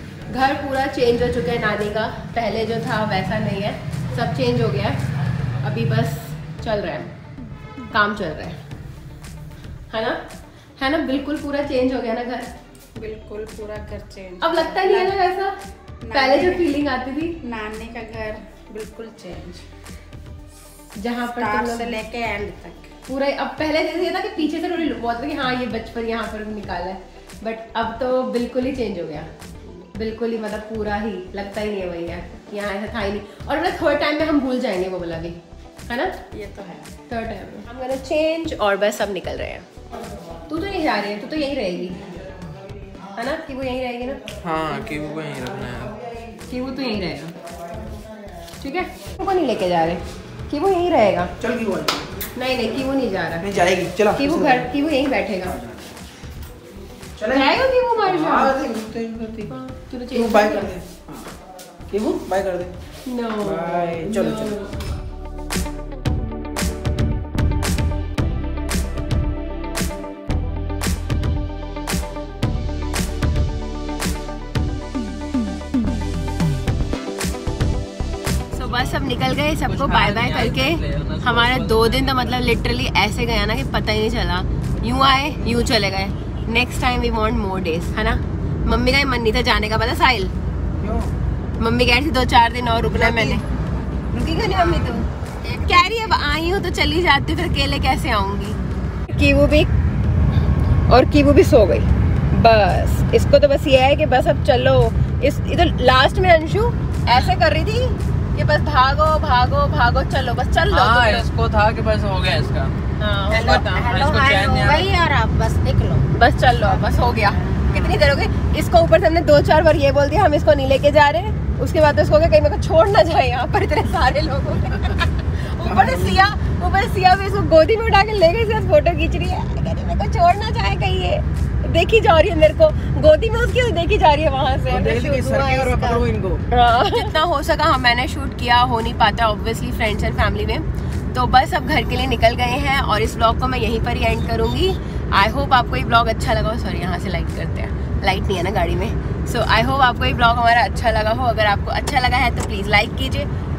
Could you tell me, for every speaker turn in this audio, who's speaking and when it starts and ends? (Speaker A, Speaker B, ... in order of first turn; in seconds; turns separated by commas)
Speaker A: 0.3-5.0, Speaker A: 5.6-7.1, Speaker A: 7.9-8.6, Speaker A: 9.9-10.2, Speaker A: 10.8-12.5, Speaker B: 12.9-15.1, Speaker A: 14.4-15.5, Speaker B: 16.0-16.8, Speaker A: 16.1-17.4, Speaker B: 17.4-19.6, Speaker A: 21.0-21.9, Speaker B: 21.2-22.9, Speaker A: 23.1-29.3, Speaker A: 29.9-35.4, Speaker A: 35.9-36.1, Speaker B: 36.3-36.9, Speaker A: 37.1-39.6, Speaker A: 40.5-42.0, Speaker A: 43.1-44.2, Speaker C: 44.4-45.9, Speaker A: 46.5-47.3, Speaker A: 48.6-51.3, Speaker D: 51.4-52.1, Speaker A: 52.4-53.5, Speaker D: 53.4-54.7, Speaker A: 54.1-55.6, Speaker D: 57.2-59.5, Speaker A: 57.3-58.6, Speaker A: 59.5-60.7, Speaker D: 60.1-61.3, Speaker D: 61.9-62.7, Speaker A: 63.0-64.8, Speaker D: 63.4-64.6, Speaker A: 78.5-90.3, Speaker C: 79.6-82.4, Speaker D: 90.8-91.1, Speaker A: 91.6-93.4, Speaker D: 92.8-93.4, Speaker A: 94.1-95.0, Speaker B: 94.5-96.1, Speaker A: 95.6-98.6, Speaker A: 99.1-99.7, Speaker A: 100.9-111.3, Speaker C: 110.7-112.7, Speaker A: 113.0-114.9, Speaker B: 113.3-116.0, Speaker C: 113.5-114.9, Speaker A: 116.1-153.3, Speaker B: 116.6-118.1, Speaker D: 125.6-126.3, Speaker D: 134.7-136.4